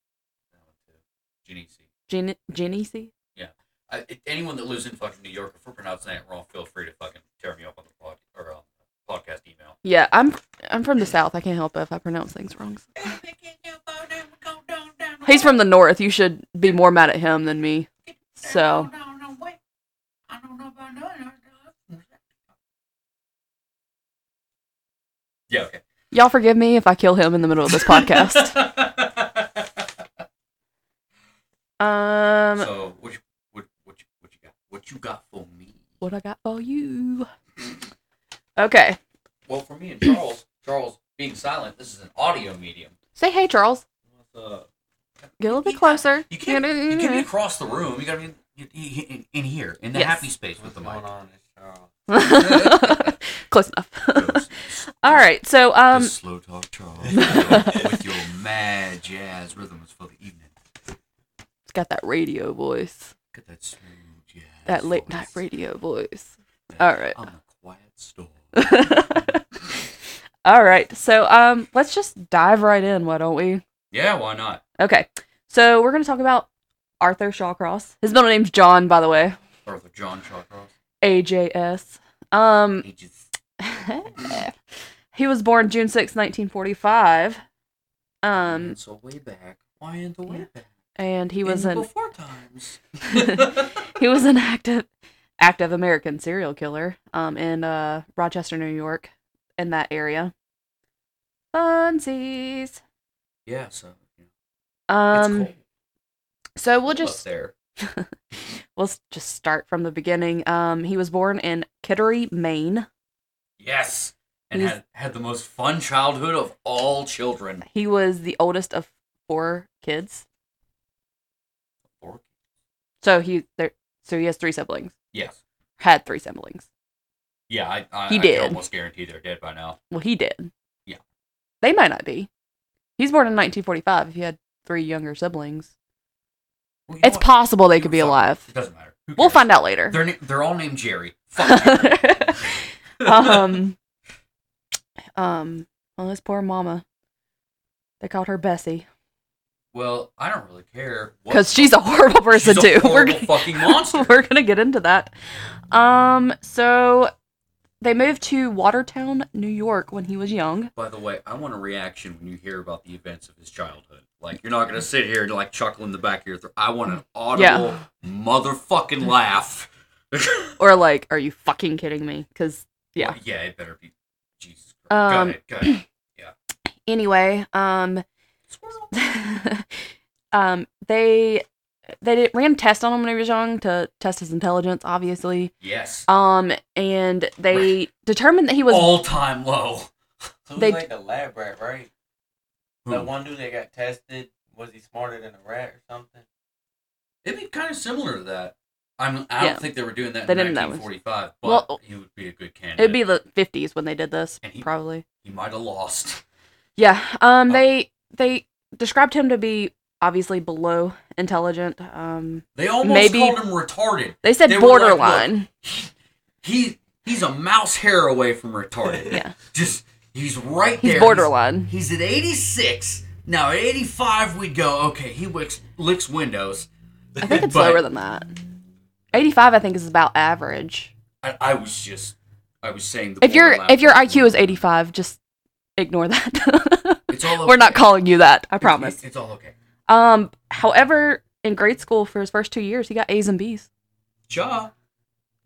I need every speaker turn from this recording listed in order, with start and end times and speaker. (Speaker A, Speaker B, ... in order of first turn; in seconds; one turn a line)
Speaker A: 0.5-1.9
Speaker B: 2.1-3.1
Speaker A: 3.3-9.8
Speaker B: 9.8-12.9
Speaker A: 12.9-15.5
Speaker B: 15.2-17.9
Speaker A: 18.1-19.6
Speaker B: 18.4-18.9
Speaker A: 20.3-22.4
Speaker A: 25.5-25.8
Speaker B: 26.1-28.5
Speaker A: 27.7-30.2
Speaker B: 31.8-32.7
Speaker A: 32.5-35.8
Speaker B: 36.0-37.3
Speaker B: 38.6-39.0
Speaker A: 39.5-42.9
Speaker B: 43.2-43.8
Speaker C: 44.1-44.7
Speaker B: 45.4-47.2
Speaker A: 45.5-51.0
Speaker B: 49.9-50.3
Speaker C: 50.5-51.9
Speaker B: 52.1-56.1
Speaker A: 52.2-53.1
Speaker A: 54.1-55.2
Speaker A: 55.9-60.5
Speaker C: 57.1-57.8
Speaker B: 57.2-57.9
Speaker B: 61.7-63.1
Speaker A: 63.3-65.4
Speaker B: 64.7-67.2
Speaker A: 66.7-69.3
Speaker B: 68.5-69.4
Speaker B: 70.4-73.6
Speaker A: 73.9-74.6
Speaker B: 74.8-76.5
Speaker B: 77.0-79.4
Speaker A: 79.7-80.7
Speaker B: 81.0-82.8
Speaker A: 82.8-83.3
Speaker B: 83.6-84.5
Speaker B: 85.1-87.4
Speaker B: 88.2-88.8
Speaker A: 88.5-90.7
Speaker B: 91.0-91.8
Speaker A: 91.4-93.8
Speaker B: 93.1-94.9
Speaker B: 95.4-100.3
Speaker B: 101.5-102.8
Speaker A: 103.5-104.2
Speaker B: 104.9-105.5
Speaker A: 105.1-105.6
Speaker B: 106.6-107.2
Speaker A: 106.9-107.5
Speaker B: 107.8-112.9
Speaker A: 113.6-117.7
Speaker B: 117.7-120.2
Speaker A: 121.9-122.3
Speaker B: 123.0-124.9
Speaker A: 125.1-125.4
Speaker B: 125.8-126.7
Speaker A: 127.5-129.8
Speaker B: 128.1-128.6
Speaker B: 129.9-130.5
Speaker B: 131.6-132.3
Speaker B: 133.0-135.7
Speaker A: 136.9-143.6
Speaker B: 137.0-138.4
Speaker B: 139.2-140.0
Speaker B: 141.4-143.8
Speaker B: 145.2-146.8
Speaker B: 148.0-148.8
Speaker A: 149.7-151.8
Speaker B: 151.3-155.1
Speaker A: 152.3-154.1
Speaker B: 155.7-157.1
Speaker B: 157.8-160.7
Speaker A: 160.7-170.5
Speaker B: 167.3-167.7
Speaker B: 170.6-173.2
Speaker A: 173.0-176.3
Speaker B: 174.9-175.8
Speaker B: 176.9-178.0
Speaker A: 178.5-178.9
Speaker B: 178.9-179.8
Speaker B: 180.3-181.4
Speaker B: 182.0-185.5
Speaker A: 185.6-186.1
Speaker B: 186.1-189.0
Speaker A: 188.7-189.9
Speaker C: 190.5-191.9
Speaker B: 190.6-190.8
Speaker A: 192.8-193.1
Speaker C: 192.9-196.2
Speaker A: 197.2-203.0
Speaker B: 199.4-199.7
Speaker B: 200.2-200.9
Speaker B: 201.4-201.8
Speaker B: 202.8-205.0
Speaker A: 205.2-206.2
Speaker B: 206.8-213.4
Speaker A: 212.6-226.7
Speaker B: 214.2-215.5
Speaker B: 219.1-219.3
Speaker B: 220.8-221.7
Speaker A: 227.2-227.8
Speaker B: 227.2-228.3
Speaker B: 229.1-230.9
Speaker A: 231.2-234.6
Speaker B: 233.2-235.2
Speaker B: 235.8-239.0
Speaker A: 237.1-237.9
Speaker A: 238.6-239.5
Speaker B: 239.9-243.7
Speaker A: 244.3-244.7